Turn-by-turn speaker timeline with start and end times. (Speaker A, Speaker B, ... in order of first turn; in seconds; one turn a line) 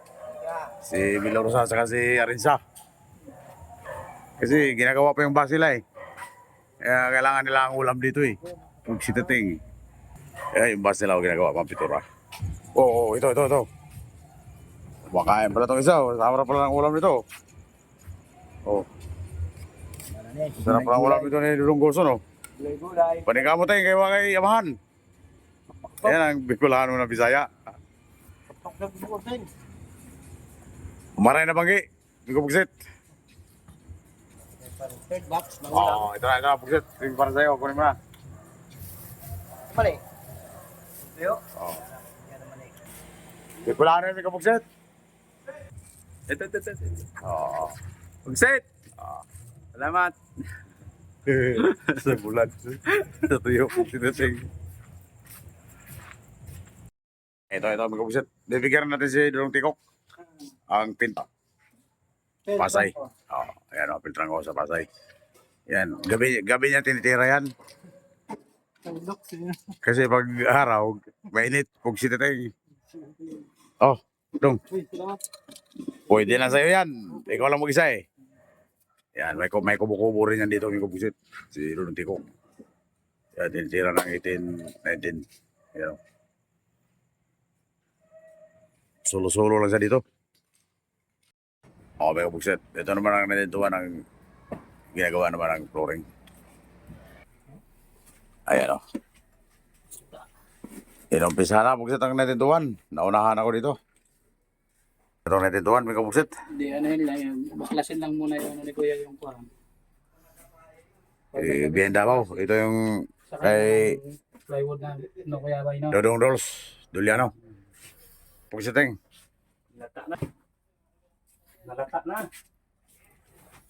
Speaker A: 0.3-0.7
Speaker B: 0.8-2.6
Speaker B: 4.4-5.8
Speaker B: 6.8-9.6
Speaker B: 10.5-12.0
Speaker B: 12.8-13.7
Speaker B: 15.1-17.2
Speaker A: 20.1-21.3
Speaker B: 20.6-22.2
Speaker A: 22.6-23.4
Speaker B: 23.3-24.8
Speaker B: 26.0-27.5
Speaker A: 28.6-29.5
Speaker B: 31.2-32.7
Speaker A: 34.6-36.1
Speaker B: 35.7-38.0
Speaker A: 39.7-40.0
Speaker A: 41.0-42.7
Speaker B: 41.6-41.8
Speaker B: 43.6-44.6
Speaker C: 46.3-47.1
Speaker B: 47.2-47.8
Speaker C: 48.3-48.6
Speaker C: 49.8-50.2
Speaker B: 51.3-54.5
Speaker B: 57.5-59.8
Speaker B: 60.7-61.3
Speaker B: 62.5-64.9
Speaker B: 65.7-67.5
Speaker C: 68.9-69.8
Speaker B: 69.8-72.5
Speaker B: 73.8-74.6
Speaker C: 74.8-75.1
Speaker B: 76.1-78.0
Speaker B: 79.2-82.3
Speaker B: 83.4-86.0
Speaker B: 89.0-90.0
Speaker B: 92.0-94.0
Speaker B: 94.9-96.1
Speaker B: 98.5-98.8
Speaker B: 101.1-103.8
Speaker B: 105.3-106.4
Speaker C: 106.5-109.5
Speaker B: 111.3-114.0
Speaker C: 111.4-112.3
Speaker C: 113.3-115.9
Speaker B: 115.9-117.3
Speaker B: 118.5-119.0
Speaker C: 121.7-122.3